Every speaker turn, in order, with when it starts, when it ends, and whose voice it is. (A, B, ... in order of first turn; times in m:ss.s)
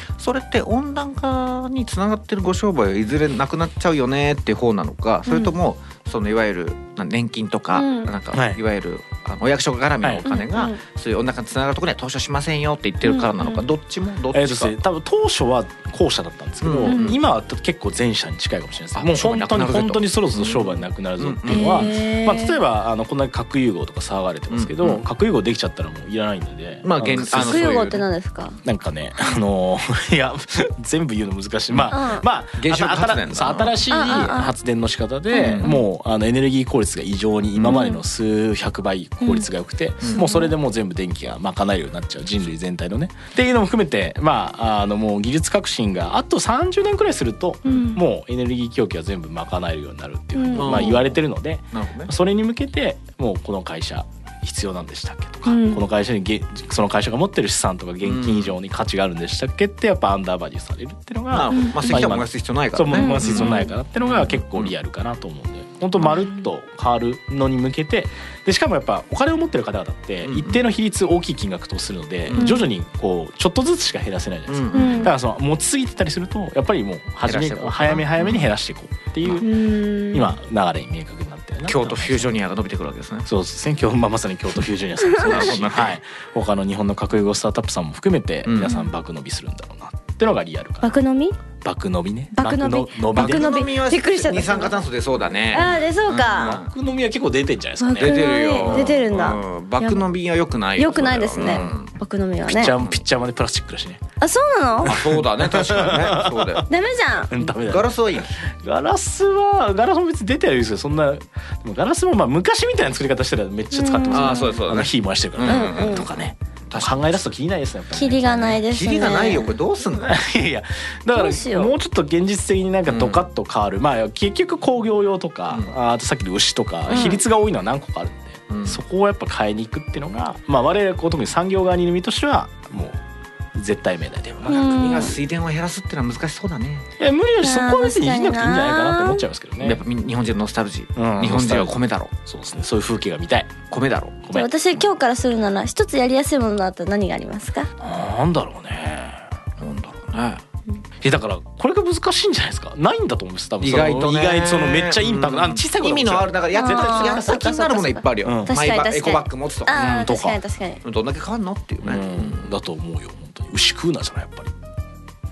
0:00.2-0:14.8 A
0:05.3-0:05.5 B
0:07.7-0:08.1 B
0:08.3-0:08.6 C
0:10.3-0:10.8 B
0:13.0-0:13.6 B
0:14.3-0:27.6 C
0:16.6-0:17.2 A
0:16.8-0:17.1 B
0:18.9-0:22.0 A
0:21.5-0:22.6 B
0:24.5-0:25.0 A
0:26.8-0:28.0 A
0:27.2-0:28.6 B
0:28.6-1:19.5 C
0:31.9-0:32.2 B
0:32.6-0:33.8 A
0:33.9-0:34.5 B
0:35.3-0:35.8 B
0:35.3-0:35.7 A
0:37.5-0:37.8 A
0:37.6-0:38.0 B
0:39.2-0:39.4 B
0:40.0-0:40.3 A
0:40.0-0:40.5 B
0:47.6-0:48.0 B
0:50.3-0:51.0 B
0:50.5-0:51.2 A
0:51.7-0:52.1 A
0:55.4-0:55.8 B
0:58.0-0:58.6 A
1:01.3-1:04.7 A
1:01.5-1:02.0 B
1:02.9-1:03.7 B
1:10.2-1:10.6 A
1:12.3-1:12.6 A
1:12.4-1:12.6 B
1:14.5-1:15.1 A
1:14.7-1:15.1 B
1:17.2-1:18.5 A
1:19.4-1:20.3 B
1:20.1-1:22.3 C
1:21.6-1:23.3 A
1:23.2-1:30.9 C
1:25.0-1:25.6 B
1:25.2-1:26.0 A
1:28.4-1:28.8 A
1:30.8-1:31.4 B
1:31.6-1:33.4 C
1:32.3-1:34.8 B
1:33.1-1:36.7 A
1:35.5-1:36.6 B
1:36.3-1:39.0 C
1:37.8-1:40.0 B
1:38.0-1:41.9 A
1:40.8-1:42.7 B
1:41.4-1:41.7 C
1:42.4-1:44.0 C
1:42.8-1:43.0 A
1:44.2-1:44.9 B
1:44.8-1:46.6 A
1:44.8-1:46.7 C
1:46.7-1:47.4 B
1:47.3-1:58.6 C
1:47.6-1:48.3 A
1:53.7-1:54.6 B
1:54.1-1:57.2 A
1:55.4-1:56.0 B
1:57.9-1:59.5 B
1:58.6-2:00.2 A
2:00.0-2:13.0 C
2:01.1-2:01.7 B
2:02.9-2:03.2 A
2:06.9-2:07.2 B
2:08.5-2:08.8 A
2:13.5-2:15.1 C
2:14.5-2:15.2 B
2:14.6-2:16.8 A
2:17.0-2:19.8 C
2:17.4-2:19.3 B
2:19.6-2:22.1 A
2:21.0-2:23.5 C
2:23.7-2:24.2 A
2:24.3-2:27.7 B
2:27.8-2:29.3 C
2:29.6-2:30.4 A
2:31.0-2:37.4 C
2:33.6-2:39.9 A
2:36.5-2:40.8 B
2:38.2-2:38.5 C
2:39.7-2:40.4 C
2:40.8-2:42.5 A
2:41.8-2:44.5 C